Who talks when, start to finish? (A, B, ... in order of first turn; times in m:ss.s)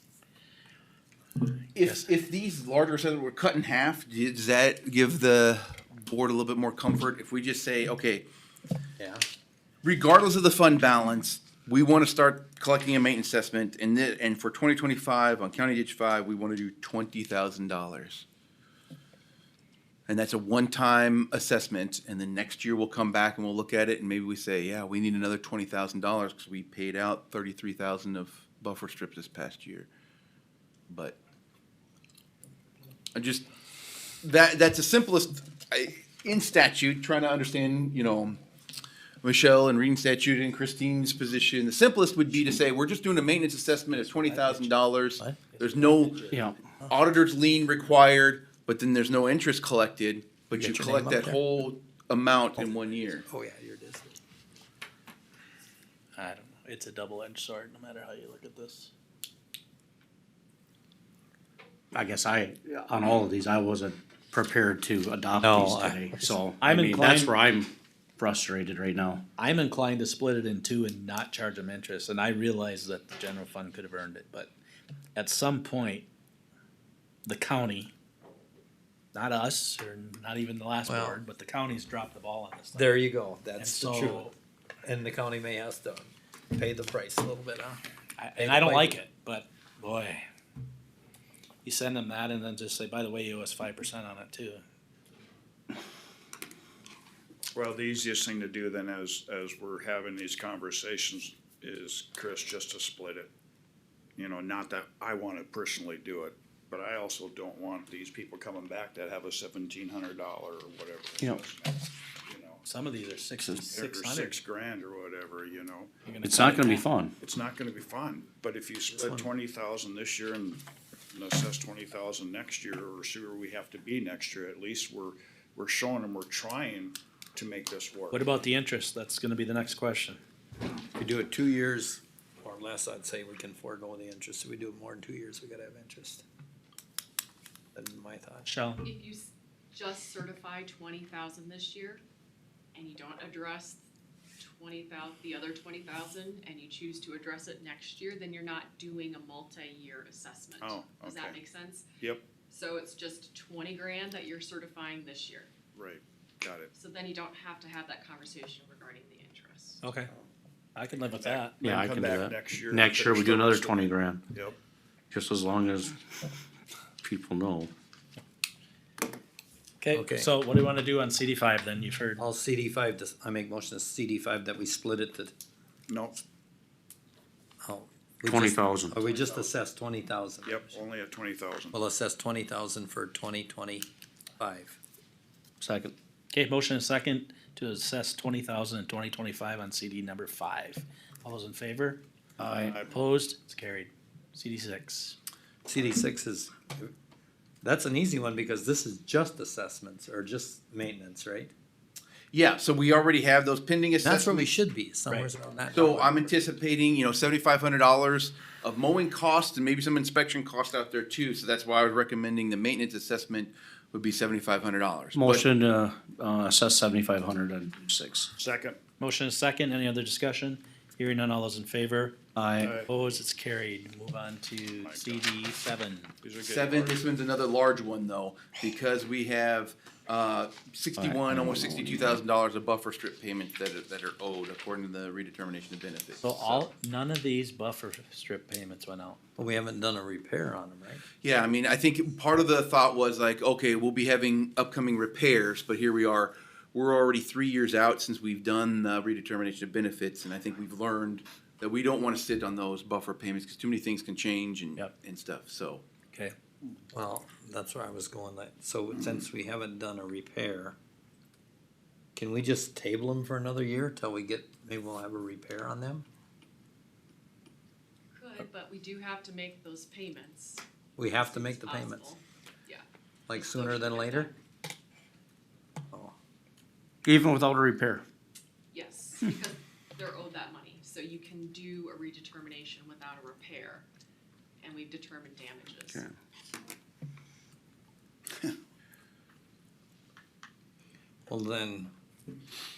0:01.7-0:08.2 A
0:09.0-0:09.2 B
0:09.8-0:18.2 A
0:20.1-0:29.9 A
0:30.9-0:31.2 A
0:33.2-0:33.4 A
0:34.2-0:38.4 A
0:39.2-0:46.3 A
0:45.5-0:46.2 C
0:46.8-0:53.2 A
0:50.5-0:51.4 B
0:52.6-0:54.2 B
0:56.2-0:58.9 C
1:01.9-1:09.2 D
1:05.4-1:06.0 B
1:06.6-1:07.3 C
1:09.4-1:14.5 C
1:15.2-1:16.1 C
1:17.2-1:17.9 C
1:19.1-1:22.9 C
1:20.9-1:21.2 B
1:22.7-1:27.8 B
1:23.6-1:24.3 C
1:28.2-1:30.2 C
1:28.4-1:29.0 B
1:31.6-1:34.6 C
1:37.5-1:43.3 E
1:44.2-1:52.6 E
1:52.7-1:54.4 C
1:53.7-1:56.5 E
1:56.1-1:56.9 C
1:56.2-1:57.2 D
1:57.2-2:08.3 E
1:59.0-1:59.3 B
2:08.1-2:10.2 C
2:11.0-2:16.2 B
2:17.8-2:18.5 B
2:18.5-2:18.8 C
2:18.8-2:22.0 F
2:22.8-2:23.8 F
2:24.4-2:31.9 F
2:30.6-2:31.4 E
2:32.0-2:32.2 E
2:32.5-2:35.5 F
2:35.7-2:36.7 E
2:36.7-2:39.9 F
2:39.8-2:40.1 C
2:40.8-2:41.6 C
2:41.1-2:44.6 E
2:41.6-2:44.3 D
2:45.1-2:46.0 D
2:47.0-2:47.7 D
2:49.8-2:52.2 C
2:49.9-2:50.3 B
2:52.2-2:55.3 B
2:55.9-2:56.2 E
2:57.6-3:00.8 B
2:58.2-2:59.0 D
2:59.0-2:59.5 E
3:00.4-3:01.8 E
3:01.7-3:04.8 B
3:05.6-3:05.9 D
3:06.3-3:12.0 C
3:12.4-3:12.9 D
3:12.7-3:12.9 E
3:12.9-3:15.2 C
3:15.7-3:16.9 B
3:17.6-3:21.5 B
3:22.3-3:24.5 A
3:24.0-3:26.2 B
3:25.7-3:35.5 A
3:35.1-3:38.3 D
3:38.4-3:38.8 E
3:39.0-3:42.2 C
3:42.4-3:42.8 D
3:42.6-3:42.9 E
3:42.9-3:46.1 C
3:44.8-3:45.3 E
3:46.2-3:47.2 E
3:46.4-3:56.6 A
3:51.0-3:52.2 D
3:56.2-3:59.2 C
3:59.4-4:01.0 B
4:01.2-4:15.8 A
4:16.9-4:20.8 B
4:22.2-4:26.1 B
4:28.1-4:30.6 F
4:31.0-4:32.1 B
4:31.2-4:34.3 F
4:33.3-4:34.3 B
4:37.0-4:38.0 D
4:38.7-4:43.9 F
4:44.6-4:46.0 F
4:51.3-4:51.9 B